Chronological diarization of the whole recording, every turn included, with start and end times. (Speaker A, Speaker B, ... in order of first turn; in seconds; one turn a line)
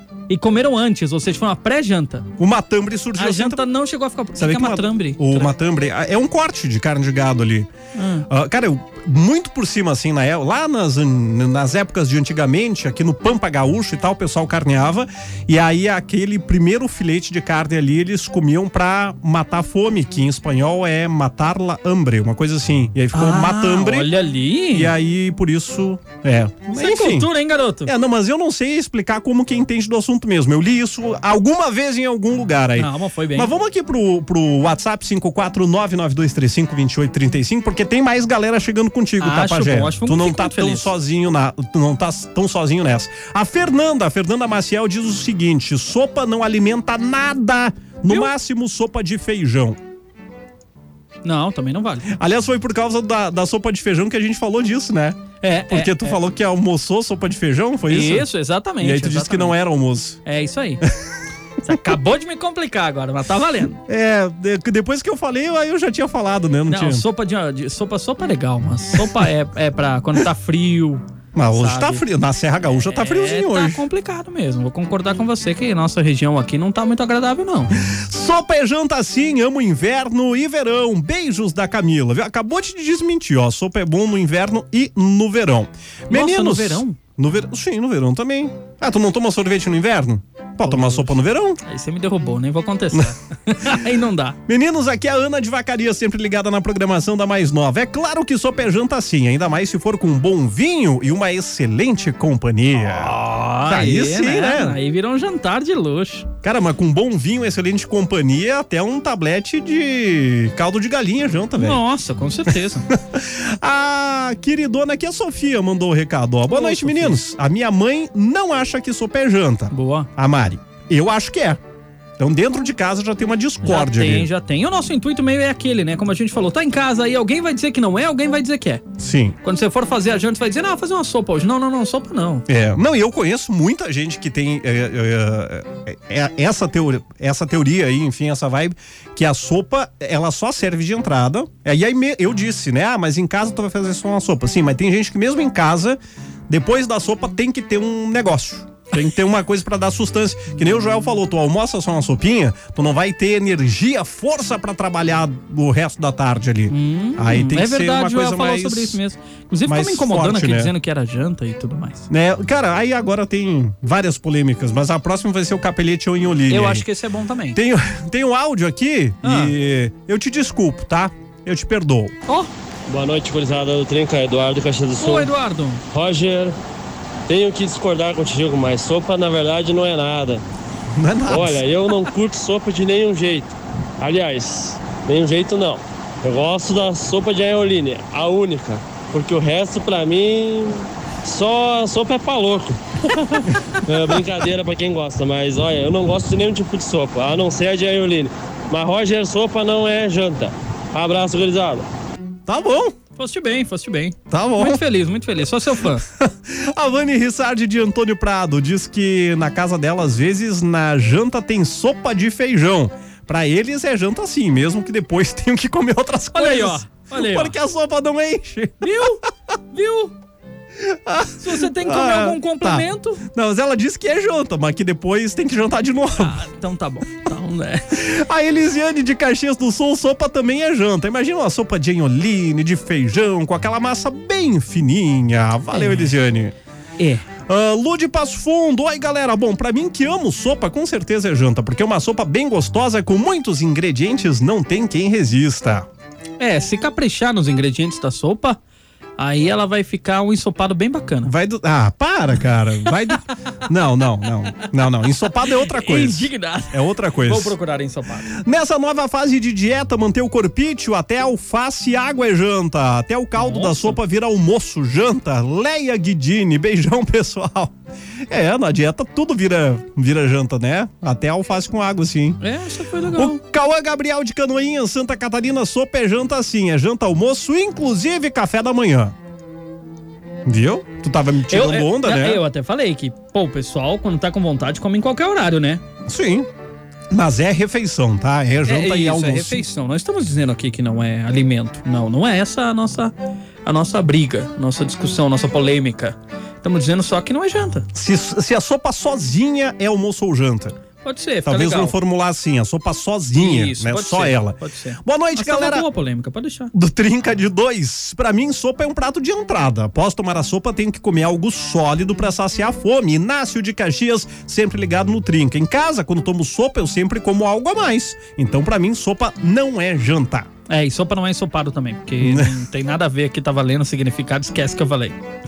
Speaker A: 0.3-2.3
Speaker B: 2.4-3.7
Speaker A: 3.2-5.5
Speaker B: 4.3-7.7
Speaker A: 8.0-8.3
Speaker B: 8.3-24.1
Speaker A: 23.1-24.9
Speaker B: 24.7-27.3
Speaker A: 26.8-27.9
Speaker B: 27.9-49.8
Speaker A: 32.8-33.5
Speaker A: 39.2-40.9
Speaker A: 51.2-52.1
Speaker B: 52.1-58.3
Speaker A: 55.4-56.2
Speaker A: 57.9-59.6
Speaker B: 58.8-60.2
Speaker A: 60.2-60.8
Speaker A: 61.6-63.8
Speaker B: 63.9-67.0
Speaker A: 66.7-71.0
Speaker B: 71.3-73.8
Speaker A: 71.5-72.0
Speaker A: 72.7-77.7
Speaker B: 77.8-91.6
Speaker A: 86.1-87.0
Speaker A: 90.6-94.4
Speaker B: 94.5-104.8
Speaker A: 102.8-106.3
Speaker B: 106.4-111.8
Speaker A: 111.6-112.9
Speaker B: 112.9-121.6
Speaker A: 116.5-117.2
Speaker A: 119.7-120.1
Speaker B: 122.2-124.3
Speaker A: 123.6-128.8
Speaker B: 129.0-129.4
Speaker A: 129.4-132.5
Speaker B: 132.5-159.0
Speaker A: 156.7-162.1
Speaker B: 159.7-160.7
Speaker B: 162.1-166.9
Speaker A: 166.5-167.6
Speaker B: 167.5-172.2
Speaker A: 169.2-169.5
Speaker C: 172.9-175.3
Speaker A: 175.0-175.8
Speaker C: 175.9-176.6
Speaker C: 177.3-180.4
Speaker B: 180.9-181.7
Speaker C: 181.3-201.9
Speaker B: 202.5-203.0
Speaker A: 203.2-206.0
Speaker B: 204.3-204.8
Speaker B: 206.2-219.1
Speaker A: 216.3-217.6
Speaker A: 218.8-220.1
Speaker B: 220.8-226.4
Speaker A: 221.4-223.2
Speaker A: 226.2-228.0
Speaker B: 227.9-236.6
Speaker A: 235.7-236.1
Speaker A: 237.0-237.2
Speaker B: 237.5-245.9
Speaker A: 246.4-248.6
Speaker A: 249.2-251.3
Speaker B: 251.2-257.6
Speaker A: 255.6-258.3
Speaker B: 258.3-272.4
Speaker A: 263.4-264.0
Speaker A: 272.4-273.4
Speaker B: 273.1-279.1
Speaker B: 280.5-282.4
Speaker A: 281.5-285.8
Speaker B: 286.1-286.5
Speaker B: 287.1-289.7
Speaker A: 288.7-293.1
Speaker A: 293.6-297.9
Speaker B: 297.9-300.8
Speaker A: 301.0-301.9
Speaker B: 301.4-305.9
Speaker A: 303.4-306.7
Speaker B: 306.7-320.5
Speaker A: 320.7-325.2
Speaker B: 322.2-322.6